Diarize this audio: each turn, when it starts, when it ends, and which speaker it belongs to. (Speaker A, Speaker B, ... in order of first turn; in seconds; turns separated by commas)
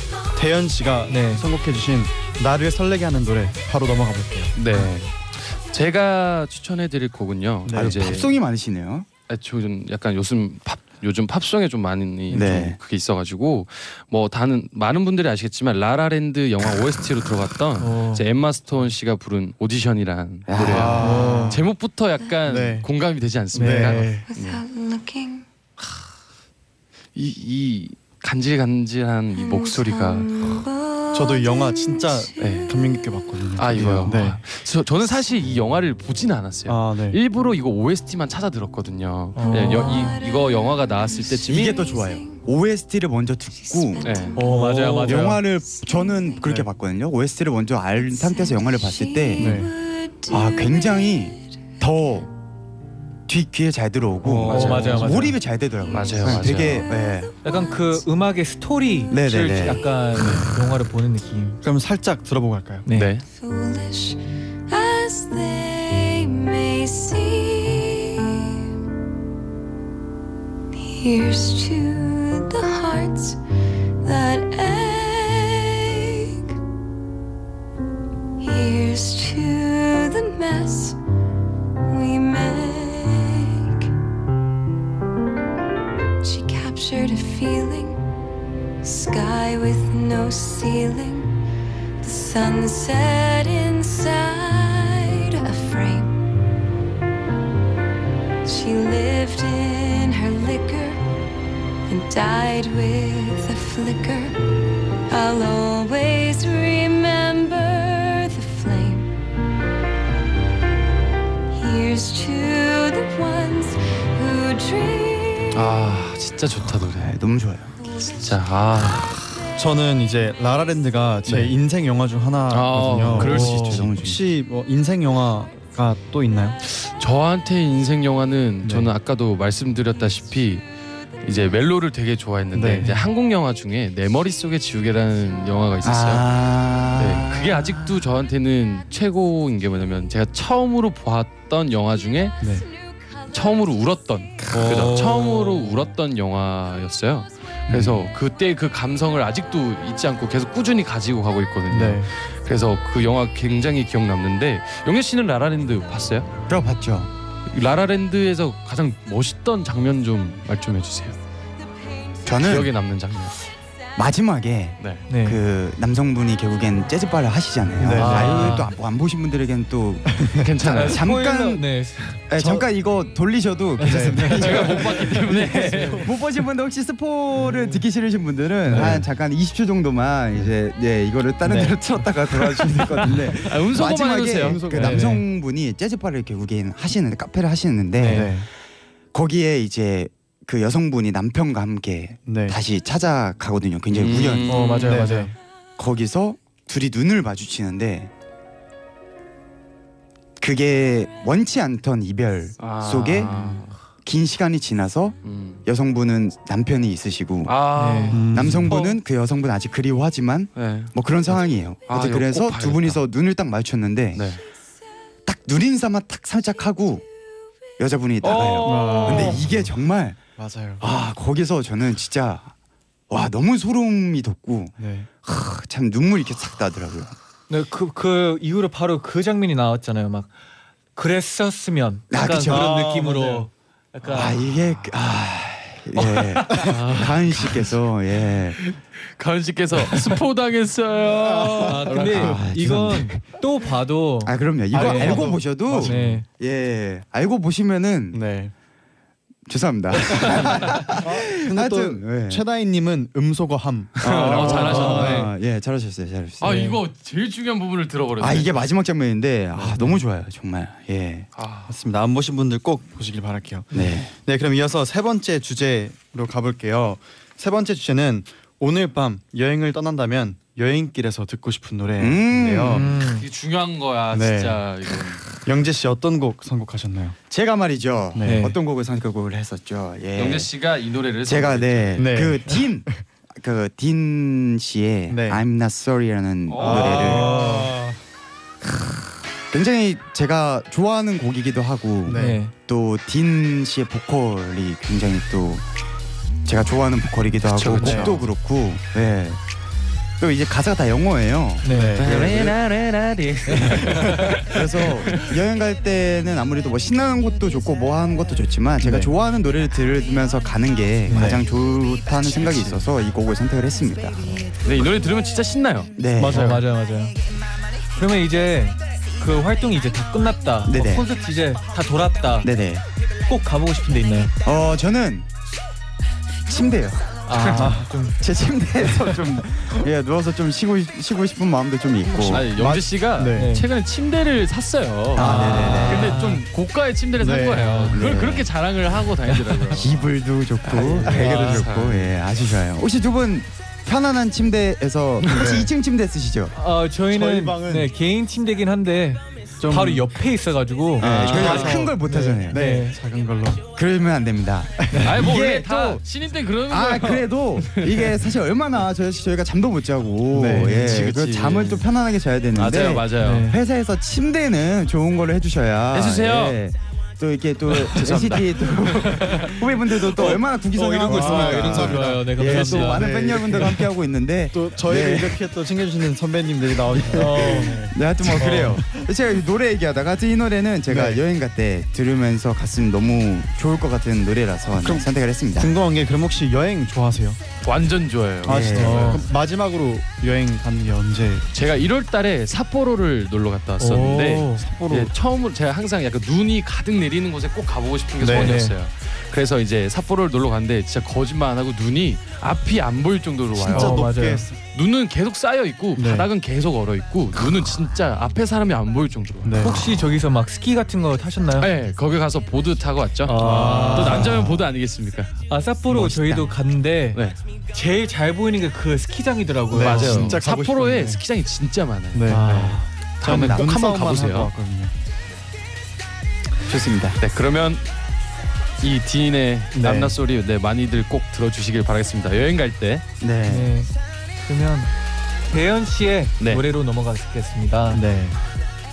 Speaker A: 0.3-4.5, Speaker B: 1.1-1.4, Speaker C: 4.5-8.4, Speaker A: 7.6-8.2, Speaker D: 7.8-9.1, Speaker C: 9.3-24.6, Speaker D: 12.3-12.8, Speaker B: 17.8-18.2, Speaker D: 20.5-21.2, Speaker A: 20.6-21.6, Speaker B: 21.0-21.6, Speaker A: 22.4-22.9, Speaker A: 23.5-24.2, Speaker B: 23.5-24.0, Speaker E: 24.2-25.4, Speaker C: 27.1-30.6, Speaker E: 29.3-33.2, Speaker A: 31.1-34.4, Speaker C: 32.4-32.7, Speaker C: 33.6-41.8, Speaker A: 36.6-37.2, Speaker B: 39.3-40.1, Speaker E: 39.4-42.5, Speaker D: 41.4-44.2, Speaker E: 43.5-44.6, Speaker C: 44.0-44.9, Speaker B: 44.3-45.4, Speaker A: 44.4-45.1, Speaker D: 45.0-49.6, Speaker E: 45.5-46.5, Speaker A: 46.4-46.7, Speaker E: 48.0-51.4, Speaker A: 49.4-49.7, Speaker D: 50.3-52.3, Speaker D: 53.3-57.3, Speaker A: 54.2-55.3, Speaker C: 54.4-55.1, Speaker B: 54.5-55.4, Speaker C: 55.9-56.9, Speaker E: 55.9-56.1, Speaker E: 56.9-58.0, Speaker B: 57.4-61.6, Speaker D: 59.1-59.9, Speaker A: 60.1-60.5, Speaker A: 61.6-62.8, Speaker B: 62.9-63.1, Speaker C: 62.9-63.2, Speaker E: 63.3-68.6, Speaker E: 70.7-73.4, Speaker E: 74.0-76.4, Speaker E: 78.4-81.0, Speaker E: 81.8-83.9, Speaker E: 86.2-88.0, Speaker E: 88.8-91.3, Speaker E: 92.0-96.3, Speaker E: 98.4-101.0, Speaker E: 101.9-104.4, Speaker E: 105.1-109.2, Speaker E: 111.5-115.7, Speaker C: 115.5-117.2, Speaker D: 116.9-117.7, Speaker E: 117.8-118.4, Speaker C: 118.1-119.4, Speaker A: 119.6-126.6, Speaker C: 122.5-123.9, Speaker D: 123.2-124.2, Speaker C: 126.6-130.6, Speaker A: 128.6-128.9, Speaker C: 131.2-136.3, Speaker A: 132.5-133.0, Speaker D: 135.8-137.8, Speaker C: 136.9-142.4, Speaker A: 142.4-142.7, Speaker C: 143.3-156.3, Speaker A: 144.5-145.8, Speaker D: 147.7-148.0, Speaker A: 151.7-152.1, Speaker D: 156.5-157.1, Speaker C: 157.5-161.2, Speaker D: 162.2-162.7, Speaker C: 162.4-163.3, Speaker D: 163.9-171.7, Speaker C: 164.8-165.1, Speaker B: 165.1-165.4, Speaker A: 167.8-168.6, Speaker B: 167.9-168.7, Speaker A: 170.2-170.5, Speaker C: 170.4-171.0, Speaker B: 170.6-172.3, Speaker D: 172.3-188.4, Speaker A: 172.3-172.7, Speaker B: 173.8-176.1, Speaker A: 173.8-174.4, Speaker C: 174.4-176.1, Speaker B: 178.7-179.0, Speaker A: 178.7-179.1, Speaker B: 181.4-181.8, Speaker C: 182.6-184.7, Speaker A: 184.3-185.2, Speaker B: 184.7-185.2, Speaker B: 188.0-188.3, Speaker A: 188.0-188.5, Speaker D: 189.1-194.7, Speaker A: 192.2-192.6, Speaker C: 193.9-195.1, Speaker B: 194.5-195.3, Speaker A: 194.5-195.3, Speaker D: 195.8-198.1, Speaker D: 200.4-203.3, Speaker C: 202.6-203.8, Speaker D: 204.0-207.5, Speaker C: 205.2-205.6, Speaker C: 207.4-208.9, Speaker B: 207.7-208.2, Speaker A: 208.1-208.8, Speaker D: 208.3-214.3, Speaker C: 210.5-213.0, Speaker C: 214.1-214.4, Speaker D: 215.2-217.0, Speaker D: 217.8-220.2, Speaker C: 218.2-219.4, Speaker A: 218.6-219.7, Speaker A: 220.3-220.8, Speaker D: 220.8-222.5, Speaker D: 223.1-227.1, Speaker A: 224.8-225.1, Speaker B: 227.5-230.3, Speaker B: 230.9-234.4, Speaker D: 232.1-232.8, Speaker A: 232.4-233.5, Speaker D: 234.1-238.6, Speaker C: 236.0-237.7, Speaker B: 236.7-237.0, Speaker C: 238.6-242.4, Speaker A: 241.1-242.2, Speaker B: 241.6-246.2, Speaker D: 242.2-243.3, Speaker D: 244.2-248.2, Speaker A: 244.7-246.2, Speaker A: 248.1-248.5, Speaker D: 249.5-252.4, Speaker A: 250.3-255.3, Speaker D: 254.0-256.5, Speaker C: 254.0-255.3, Speaker B: 254.7-255.1, Speaker C: 256.4-258.6, Speaker B: 256.4-256.8, Speaker D: 258.2-261.3, Speaker A: 259.6-260.0, Speaker C: 261.4-261.7, Speaker A: 261.7-272.9, Speaker D: 263.7-264.1, Speaker D: 272.0-272.9, Speaker B: 272.7-273.2, Speaker C: 273.0-275.2, Speaker A: 274.1-274.6, Speaker A: 275.4-277.2, Speaker D: 277.3-280.5, Speaker A: 278.1-278.5, Speaker B: 278.2-278.6, Speaker C: 280.1-282.1, Speaker D: 281.2-287.3, Speaker A: 281.9-282.9, Speaker A: 285.1-285.4, Speaker C: 286.5-287.3, Speaker A: 286.6-288.0, Speaker B: 287.0-287.7, Speaker D: 289.5-295.6, Speaker A: 292.0-292.4, Speaker B: 292.1-292.5, Speaker D: 296.4-299.4, Speaker A: 297.4-298.2, Speaker C: 297.5-298.1, Speaker D: 300.2-302.6, Speaker B: 301.6-302.0, Speaker A: 301.6-302.1, Speaker C: 302.0-305.3, Speaker D: 303.6-314.2, Speaker B: 303.8-304.4, Speaker A: 308.8-309.1, Speaker B: 311.1-311.4, Speaker A: 311.1-311.4, Speaker C: 312.2-312.9, Speaker C: 314.6-315.9, Speaker D: 315.9-316.6, Speaker A: 316.1-316.6, Speaker B: 316.2-317.1, Speaker B: 317.9-322.5, Speaker D: 320.6-321.1, Speaker D: 322.4-322.8, Speaker B: 323.3-324.3, Speaker D: 324.4-325.3, Speaker D: 326.4-332.5, Speaker B: 327.3-328.2, Speaker A: 327.6-327.9, Speaker C: 332.1-340.1, Speaker A: 332.3-333.5, Speaker B: 333.3-333.6, Speaker D: 335.1-336.2, Speaker B: 335.2-336.4, Speaker A: 337.2-337.9, Speaker B: 337.5-338.0, Speaker D: 337.9-338.5, Speaker B: 339.3-339.8, Speaker D: 339.8-346.5, Speaker C: 340.7-342.1, Speaker B: 340.8-341.2, Speaker A: 341.0-341.6, Speaker A: 345.2-345.7, Speaker B: 346.5-353.0, Speaker A: 347.1-347.9, Speaker A: 349.6-350.2, Speaker D: 351.0-352.6, Speaker A: 351.0-353.6, Speaker C: 351.0-351.8, Speaker D: 353.7-356.0, Speaker A: 354.8-355.2, Speaker C: 355.0-358.4, Speaker D: 356.7-375.4, Speaker A: 360.3-361.8, Speaker B: 360.4-361.1, Speaker C: 361.1-361.8, Speaker C: 362.5-363.5, Speaker B: 363.2-363.6, Speaker C: 365.9-366.6, Speaker C: 367.7-369.5, Speaker B: 370.1-373.8, Speaker A: 371.0-373.9, Speaker A: 374.5-379.1, Speaker D: 377.0-385.7, Speaker B: 377.1-377.9, Speaker B: 378.4-378.8, Speaker A: 380.9-381.2, Speaker A: 384.7-387.4, Speaker C: 387.6-389.2, Speaker A: 388.4-391.4, Speaker D: 388.4-389.2, Speaker C: 391.5-404.0, Speaker B: 393.8-394.6, Speaker A: 394.6-395.1, Speaker A: 398.2-398.6, Speaker B: 398.3-398.7, Speaker A: 403.5-404.6, Speaker B: 403.7-404.5, Speaker C: 404.7-410.0, Speaker A: 405.9-406.3, Speaker A: 409.4-409.8, Speaker B: 409.6-411.7, Speaker C: 411.6-415.3, Speaker B: 413.2-414.4, Speaker A: 413.3-414.6, Speaker B: 415.5-417.2, Speaker D: 415.9-416.5, Speaker B: 417.7-420.4, Speaker A: 419.7-421.2, Speaker C: 419.8-424.5, Speaker A: 422.1-424.9, Speaker B: 422.3-422.9, Speaker D: 423.3-423.7, Speaker D: 426.6-427.2, Speaker C: 427.2-427.9, Speaker C: 428.8-433.0, Speaker A: 429.7-430.1, Speaker D: 433.2-433.7, Speaker B: 433.5-433.9, Speaker B: 434.4-434.9, Speaker B: 435.5-438.0, Speaker A: 437.9-438.4